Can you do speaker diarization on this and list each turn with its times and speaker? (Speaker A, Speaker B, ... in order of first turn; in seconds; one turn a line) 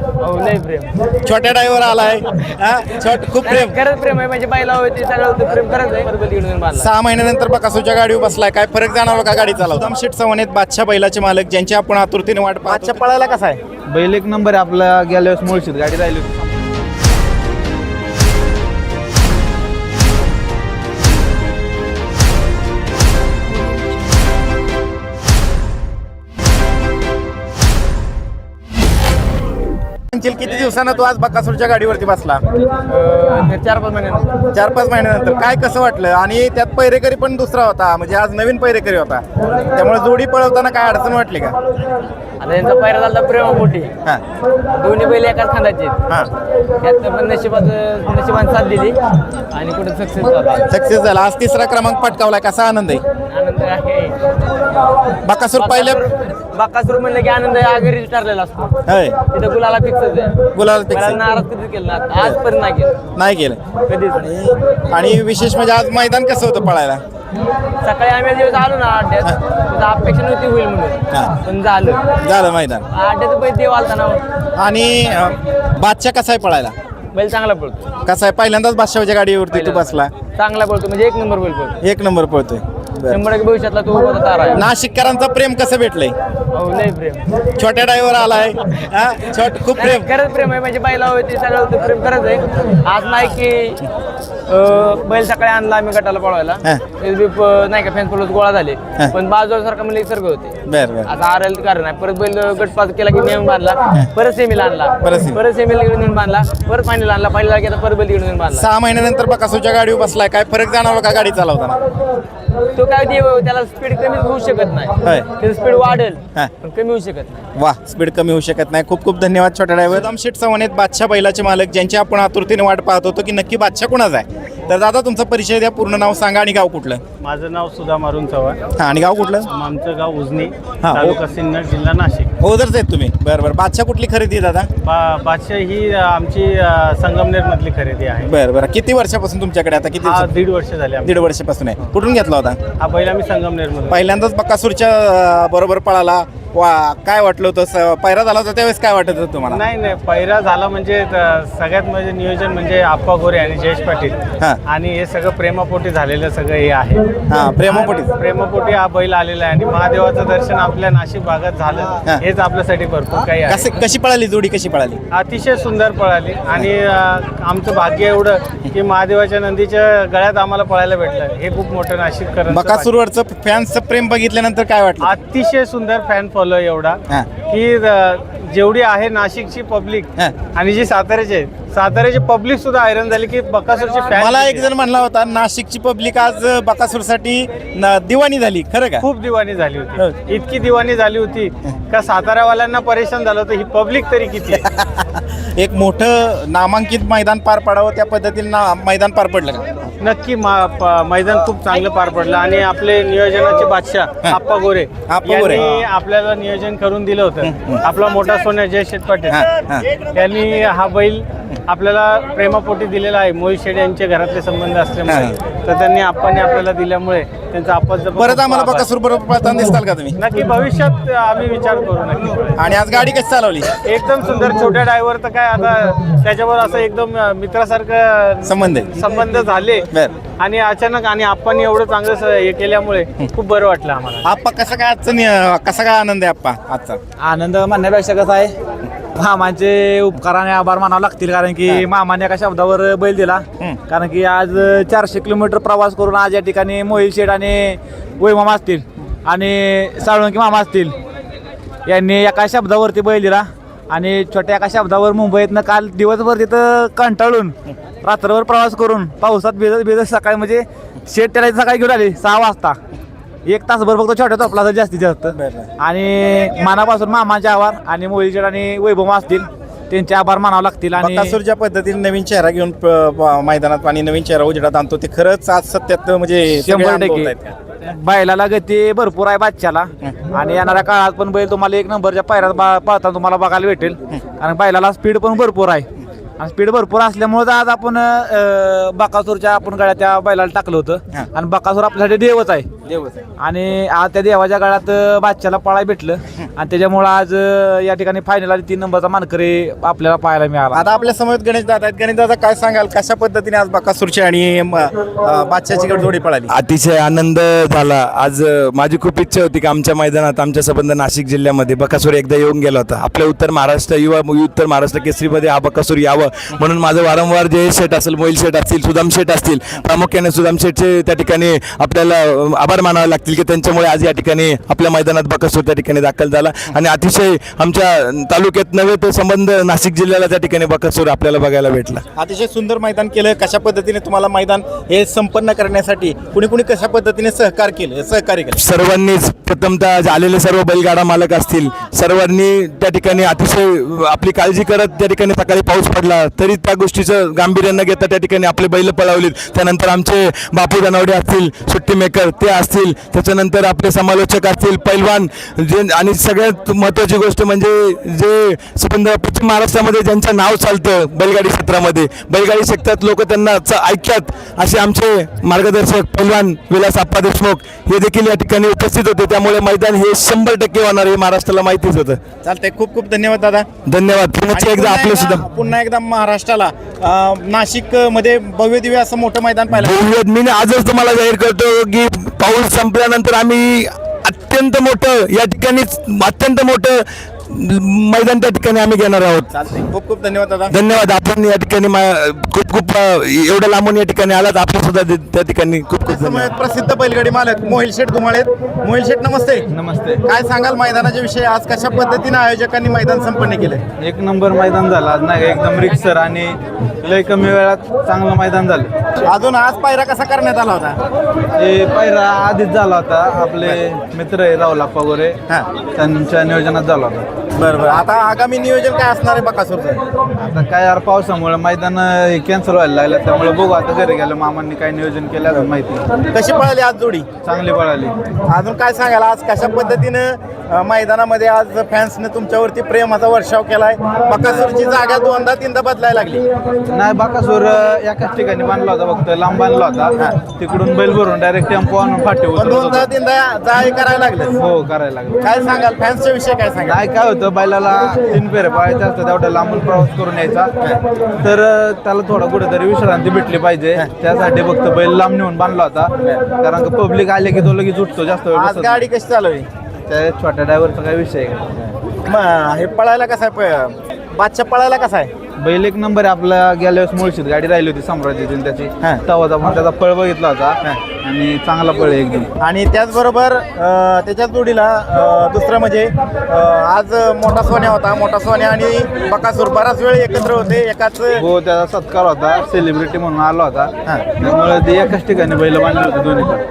Speaker A: 0.2-0.9
Speaker B: 1.2-3.7
Speaker A: 3.4-6.9
Speaker B: 6.8-13.6
Speaker C: 13.9-16.4
Speaker B: 30.1-32.4
Speaker A: 32.8-34.3
Speaker B: 34.5-41.5
Speaker A: 42.4-43.9
Speaker A: 44.7-46.0
Speaker A: 46.8-49.0
Speaker A: 49.5-50.6
Speaker B: 50.7-53.0
Speaker A: 53.3-54.2
Speaker B: 55.2-56.0
Speaker A: 55.6-58.8
Speaker B: 58.9-59.1
Speaker A: 59.3-63.0
Speaker B: 60.5-61.2
Speaker B: 63.2-63.6
Speaker A: 63.9-64.3
Speaker B: 64.2-67.0
Speaker A: 67.8-72.0
Speaker B: 72.2-72.8
Speaker A: 72.9-74.2
Speaker B: 74.6-76.7
Speaker A: 77.1-77.9
Speaker B: 78.0-80.1
Speaker A: 79.5-81.8
Speaker B: 81.8-83.2
Speaker A: 83.1-84.7
Speaker B: 84.5-86.1
Speaker A: 86.5-87.2
Speaker B: 87.6-90.1
Speaker A: 89.8-93.8
Speaker A: 94.5-100.5
Speaker B: 100.7-101.1
Speaker A: 101.0-108.7
Speaker B: 105.0-105.4
Speaker B: 108.5-111.8
Speaker A: 112.8-117.4
Speaker B: 117.6-127.0
Speaker D: 127.2-128.6
Speaker B: 128.8-129.5
Speaker D: 129.6-132.3
Speaker B: 130.8-131.2
Speaker B: 132.4-134.7
Speaker D: 134.9-138.3
Speaker B: 138.3-140.3
Speaker D: 140.1-141.1
Speaker B: 141.1-142.6
Speaker D: 142.8-144.0
Speaker B: 143.9-149.6
Speaker D: 149.7-154.2
Speaker D: 154.8-157.0
Speaker B: 157.3-158.1
Speaker D: 158.0-163.6
Speaker B: 163.5-165.0
Speaker D: 165.2-172.8
Speaker B: 172.5-175.2
Speaker D: 175.2-177.0
Speaker D: 177.5-184.7
Speaker B: 184.1-189.1
Speaker D: 189.2-194.5
Speaker B: 194.6-199.9
Speaker D: 200.1-209.3
Speaker B: 205.1-205.7
Speaker B: 207.4-207.8
Speaker B: 209.3-209.9
Speaker D: 210.1-218.9
Speaker B: 215.1-215.4
Speaker B: 218.2-220.2
Speaker D: 220.4-222.5
Speaker B: 222.6-223.8
Speaker D: 223.9-228.4
Speaker B: 228.4-228.9
Speaker D: 229.1-229.8
Speaker B: 229.9-230.2
Speaker D: 230.4-234.2
Speaker B: 234.2-237.0
Speaker E: 237.2-238.5
Speaker E: 239.2-250.9
Speaker E: 251.9-262.8
Speaker E: 263.5-271.4
Speaker B: 265.3-265.7
Speaker B: 271.0-277.5
Speaker E: 276.6-285.9
Speaker E: 286.4-292.7
Speaker B: 292.9-293.2
Speaker E: 293.4-300.9
Speaker B: 300.7-306.5
Speaker F: 306.5-332.0
Speaker B: 332.2-338.6
Speaker F: 338.6-372.2
Speaker B: 372.4-373.7
Speaker F: 373.9-375.5
Speaker B: 374.5-380.0
Speaker F: 379.7-389.5
Speaker B: 389.5-390.8
Speaker F: 390.7-396.5
Speaker B: 396.1-399.7
Speaker C: 399.7-400.2
Speaker B: 400.2-403.8
Speaker C: 404.0-408.9
Speaker B: 409.2-411.0
Speaker C: 411.6-415.4
Speaker C: 416.0-417.3
Speaker B: 417.6-420.0
Speaker C: 420.4-426.1
Speaker B: 426.3-427.3
Speaker C: 427.4-428.1
Speaker B: 428.5-436.5
Speaker C: 436.9-443.1
Speaker B: 442.5-444.6
Speaker C: 444.6-445.4
Speaker B: 445.4-447.0
Speaker C: 446.8-450.7
Speaker C: 451.4-459.1
Speaker B: 456.2-456.5
Speaker B: 458.5-459.7
Speaker C: 460.1-461.8
Speaker B: 462.2-465.3
Speaker C: 465.6-472.5
Speaker B: 472.6-481.5
Speaker C: 481.4-486.6
Speaker B: 484.1-484.4